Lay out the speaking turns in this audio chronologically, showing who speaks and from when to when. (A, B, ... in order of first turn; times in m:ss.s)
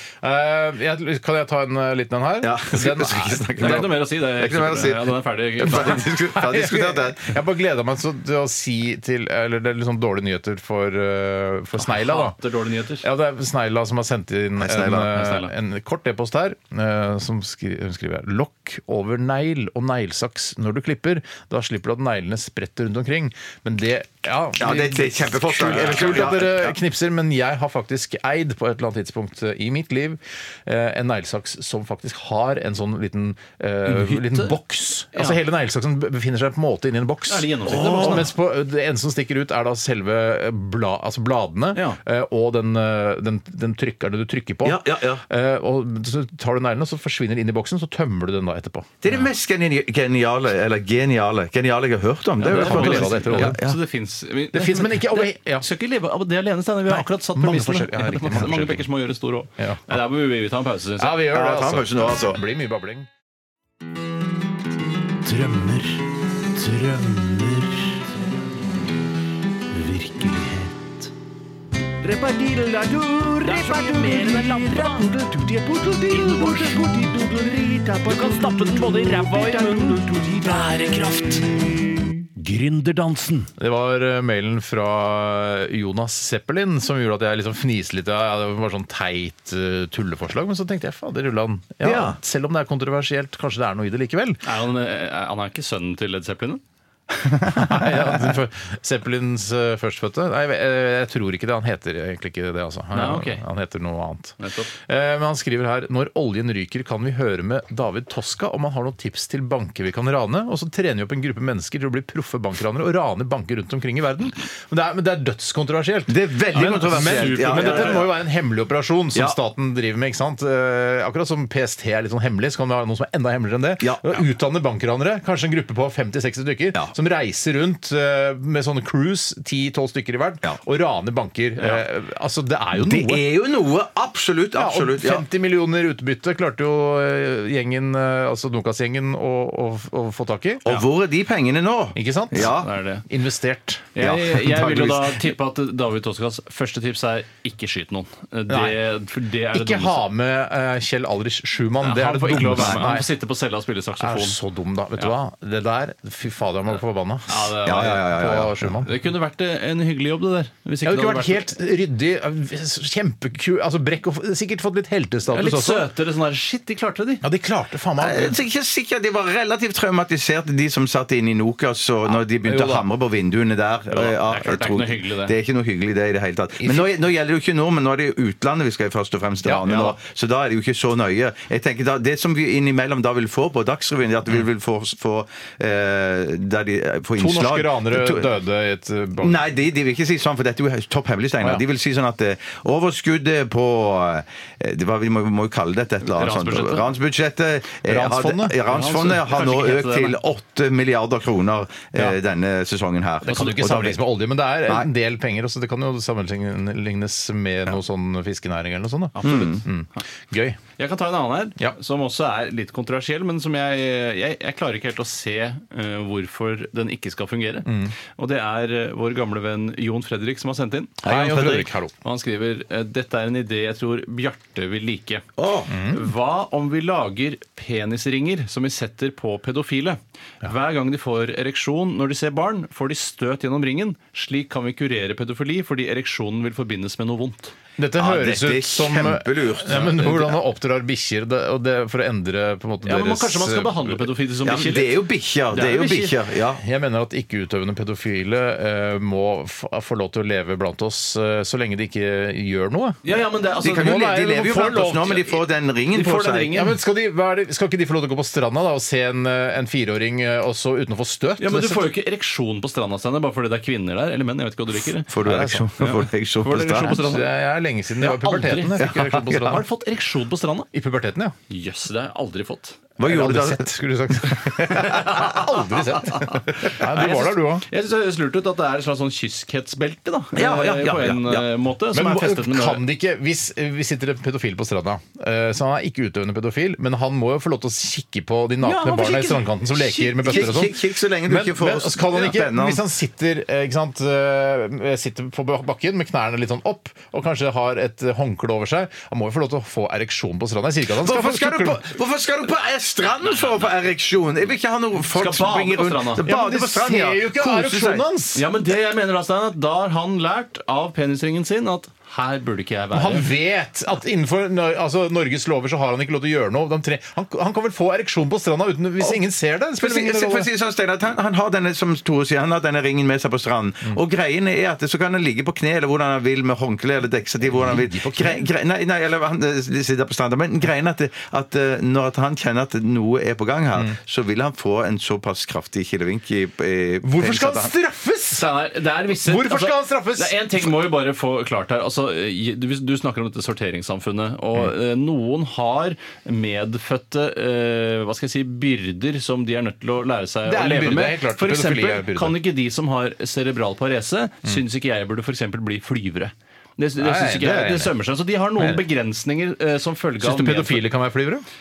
0:00.2-0:03.9 A
0:02.4-0:07.3 B
0:03.6-0:06.1 C
0:06.1-0:12.4 A
0:11.8-0:13.0 C
0:13.0-0:49.1 A
0:14.6-0:15.2 B
0:15.1-0:15.5 C
0:24.6-0:26.8 B
0:25.7-0:26.1 C
0:33.9-0:34.6 C
0:35.1-0:35.4 C
0:37.3-0:38.3 C
0:37.7-0:38.2 B
0:41.7-0:42.0 C
0:44.6-0:45.2 B
0:49.0-0:53.8 B
0:52.4-1:01.2 C
0:52.4-0:53.6 A
0:54.5-0:55.7 A
0:56.9-0:58.9 A
0:59.6-1:00.0 A
1:01.0-1:03.1 A
1:01.2-1:02.4 B
1:05.2-1:08.0 D
1:09.7-1:10.9 D
1:12.0-1:21.5 E
1:16.4-1:16.6 D
1:22.4-1:23.5 D
1:23.6-1:34.4 A
1:31.8-1:32.2 B
1:34.4-1:36.6 C
1:37.4-2:13.2 A
1:42.9-1:43.4 C
1:44.4-1:44.7 C
1:56.1-1:58.1 B
1:56.5-1:58.1 C
2:03.8-2:04.2 B
2:12.8-2:15.2 B
2:14.6-2:20.8 A
2:20.6-2:22.7 B
2:22.0-2:24.0 A
2:22.4-2:23.0 C
2:24.0-2:30.0 C
2:24.0-2:25.0 B
2:28.5-2:28.8 A
2:29.5-2:33.1 A
2:31.8-2:34.4 C
2:34.0-2:38.9 A
2:37.3-2:38.2 C
2:37.6-2:38.7 B
2:38.8-2:41.5 C
2:40.8-2:45.9 A
2:45.3-2:47.2 C
2:47.2-2:48.4 A
2:48.0-3:08.3 B
2:52.1-2:52.9 A
2:53.9-2:55.4 C
2:56.6-2:56.9 A
2:59.4-3:00.0 A
3:07.2-3:09.4 A
3:09.2-3:24.0 B
3:16.0-3:16.9 C
3:17.8-3:18.6 A
3:18.7-3:20.2 C
3:23.2-3:30.6 A
3:23.3-3:23.6 C
3:29.2-3:30.0 C
3:29.2-3:29.6 B
3:30.8-3:41.4 C
3:37.7-3:37.9 A
3:41.0-3:41.7 B
3:41.0-3:41.9 A
3:42.0-3:45.3 C
3:45.4-3:45.8 B
3:45.7-3:46.0 A
3:45.9-3:57.6 C
3:57.8-4:04.0 A
3:58.0-4:00.4 B
4:02.8-4:06.2 C
4:04.4-4:06.6 B
4:06.6-4:13.0 A
4:13.0-4:14.0 C
4:13.6-4:15.4 A
4:13.6-4:16.6 B
4:15.9-4:16.8 C
4:16.5-4:21.9 A
4:21.4-4:27.3 C
4:25.1-4:27.1 B
4:25.2-4:25.7 A
4:26.8-4:29.6 A
4:28.0-4:30.7 C
4:28.8-4:29.6 B
4:30.7-4:31.4 A
4:31.5-4:32.8 C
4:33.0-4:33.7 B
4:33.0-4:37.6 A
4:34.3-4:35.3 B
4:36.2-4:42.8 C
4:40.4-4:41.5 B
4:41.9-5:01.9 A
4:48.6-4:50.7 C
4:50.2-4:52.8 B
5:01.0-5:08.1 B
5:03.2-5:03.7 C
5:05.1-5:06.3 C
5:06.2-5:08.5 A
5:08.4-5:13.3 C
5:12.9-5:20.5 A
5:19.8-5:37.7 B
5:27.4-5:28.5 A
5:37.0-5:38.5 A
5:38.3-6:00.9 C
5:39.1-5:40.7 A
5:50.4-5:52.4 A
5:57.0-5:58.0 A
5:58.6-5:58.8 A
6:00.2-6:01.4 A